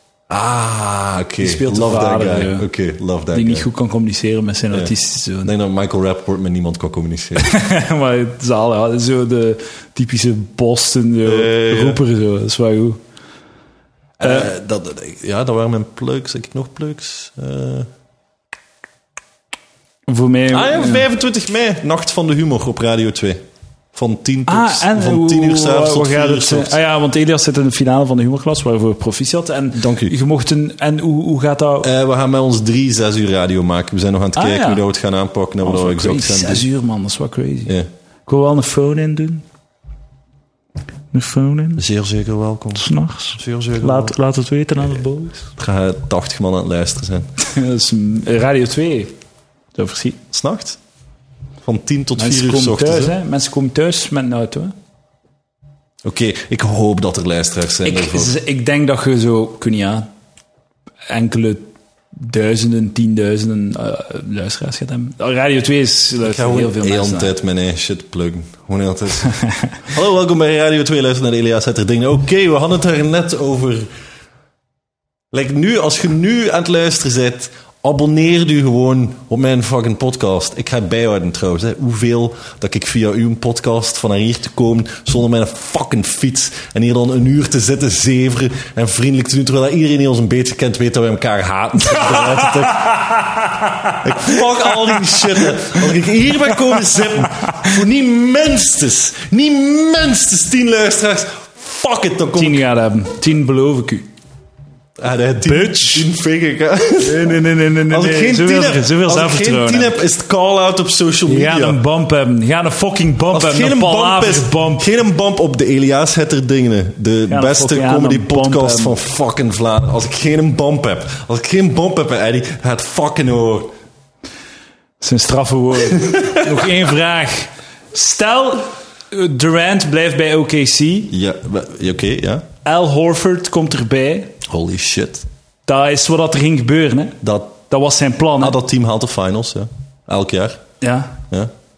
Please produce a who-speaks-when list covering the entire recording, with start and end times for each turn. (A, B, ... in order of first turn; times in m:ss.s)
0:00.3-0:03.7 A
0:01.4-0:02.7 B
0:03.3-0:05.5 B
0:05.4-0:07.5 A
0:07.4-0:13.0 B
0:11.2-0:12.0 A
0:14.2-0:17.9 A
0:14.2-0:14.5 B
0:20.1-0:21.0 B
0:20.5-0:23.4 A
0:23.9-0:26.8 A
0:24.5-0:31.9 B
0:29.7-0:30.1 A
0:31.8-0:36.6 A
0:34.4-0:34.8 B
0:35.6-0:37.7 B
0:38.3-0:39.4 B
0:41.1-0:41.8 B
0:41.8-0:42.8 A
0:42.7-0:45.5 B
0:43.3-0:44.1 A
0:45.6-0:47.3 A
0:47.4-0:49.1 B
0:49.7-0:50.2 B
0:50.3-0:50.8 A
0:51.6-0:53.1 A
0:52.2-0:54.7 B
0:56.0-0:58.3 A
0:57.8-1:00.1 B
1:01.1-1:07.3 B
1:06.2-1:09.3 A
1:09.3-1:09.7 B
1:09.9-1:13.9 A
1:15.3-1:33.1 A
1:31.9-1:35.8 B
1:34.0-1:42.6 A
1:42.3-1:44.1 B
1:45.0-1:51.8 A
1:45.4-1:46.1 B
1:47.0-1:50.0 B
1:51.2-1:54.8 B
1:53.3-2:03.7 A
1:57.3-1:58.9 B
2:05.0-2:11.1 B
2:05.9-2:06.6 A
2:11.1-2:12.4 A
2:12.6-2:14.4 B
2:14.4-2:15.2 A
2:15.7-2:18.6 B
2:17.2-2:17.6 A
2:18.4-2:20.6 A
2:20.8-2:21.2 B